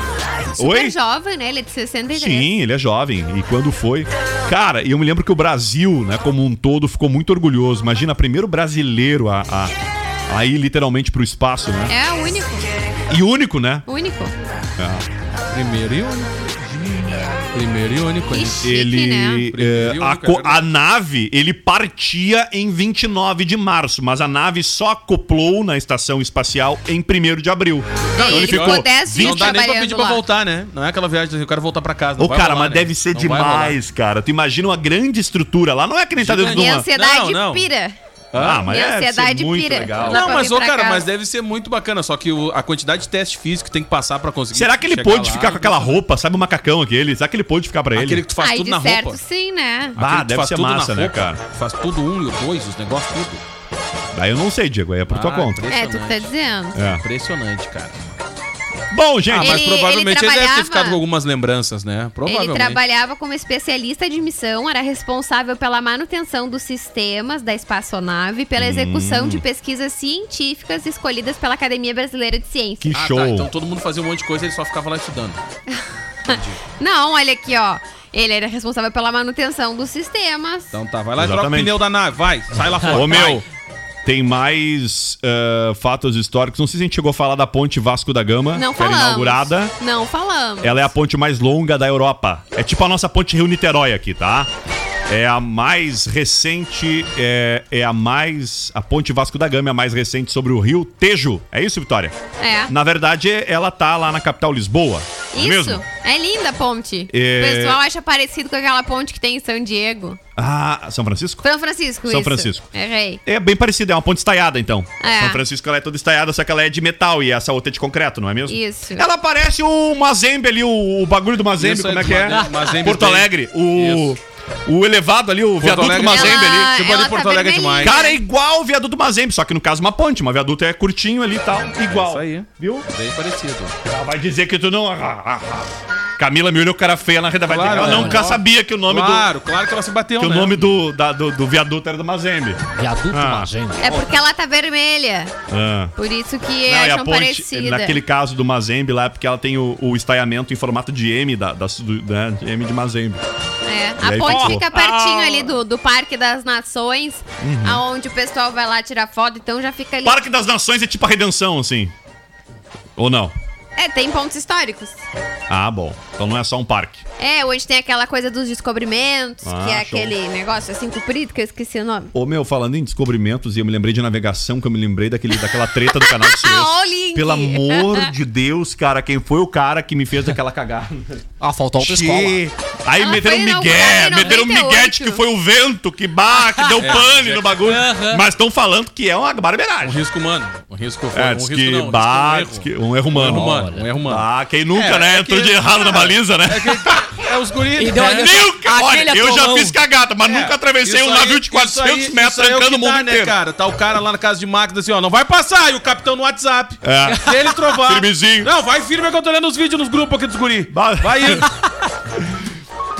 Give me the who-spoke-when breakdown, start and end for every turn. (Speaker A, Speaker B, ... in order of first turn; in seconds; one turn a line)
Speaker A: 0.6-0.9
Speaker B: 0.6-2.5
Speaker A: 2.1-9.7
Speaker A: 10.3-11.9
Speaker B: 11.9-12.7
Speaker A: 13.1-13.8
Speaker B: 13.9-14.3
Speaker A: 14.8-15.1
Speaker C: 15.5-18.7
Speaker B: 18.3-19.5
Speaker A: 18.6-29.6
Speaker C: 19.5-20.7
Speaker B: 28.1-30.2
Speaker C: 28.2-33.8
Speaker A: 32.2-36.9
Speaker C: 36.2-37.6
Speaker B: 36.4-38.0
Speaker C: 38.3-38.7
Speaker A: 38.3-40.4
Speaker B: 38.5-41.0
Speaker C: 40.1-46.0
Speaker A: 44.5-48.2
Speaker C: 47.9-49.2
Speaker B: 48.4-50.0
Speaker A: 50.0-51.4
Speaker C: 50.0-53.4
Speaker A: 54.1-55.6
Speaker C: 55.1-58.0
Speaker B: 55.7-56.7
Speaker A: 56.7-57.0
Speaker A: 58.9-59.6
Speaker C: 59.3-62.8
Speaker B: 59.4-61.0
Speaker B: 62.2-72.9
Speaker A: 68.6-69.4
Speaker A: 72.8-73.5
Speaker C: 72.9-75.4
Speaker B: 75.7-80.7
Speaker C: 76.3-76.6
Speaker C: 80.7-83.4
Speaker A: 81.2-81.8
Speaker A: 82.9-83.4
Speaker A: 84.0-89.7
Speaker B: 88.5-90.8
Speaker A: 90.6-94.5
Speaker A: 95.1-102.2
Speaker B: 102.4-102.7
Speaker A: 102.7-105.8
Speaker B: 105.3-110.2
Speaker A: 107.1-107.8
Speaker A: 110.3-111.4
Speaker B: 111.4-113.2
Speaker A: 112.0-112.7
Speaker A: 113.2-126.7
Speaker B: 115.0-115.4
Speaker B: 118.5-119.0
Speaker C: 121.6-124.1
Speaker C: 125.6-128.0
Speaker B: 126.0-128.2
Speaker A: 127.8-132.9
Speaker C: 131.8-133.8
Speaker A: 133.8-139.3
Speaker C: 137.4-140.7
Speaker D: 137.7-138.3
Speaker A: 140.2-143.5
Speaker D: 142.8-144.0
Speaker B: 143.8-145.3
Speaker A: 145.5-145.9
Speaker B: 145.9-148.0
Speaker A: 146.6-153.2
Speaker B: 153.6-160.2
Speaker A: 154.0-155.6
Speaker A: 157.4-157.8
Speaker A: 160.0-161.9
Speaker A: 163.0-163.3
Speaker B: 163.8-165.0
Speaker A: 165.5-167.0
Speaker B: 167.2-172.1
Speaker A: 169.4-170.1
Speaker A: 172.1-181.3
Speaker B: 175.9-178.1
Speaker D: 181.4-182.4
Speaker A: 181.8-190.1
Speaker B: 183.0-185.2
Speaker C: 186.8-187.9
Speaker D: 187.7-188.2
Speaker C: 189.8-198.4
Speaker A: 191.1-197.2
Speaker D: 193.2-193.9
Speaker D: 197.8-199.8
Speaker A: 198.1-203.3
Speaker C: 200.2-211.6
Speaker A: 206.8-208.5
Speaker A: 210.7-211.5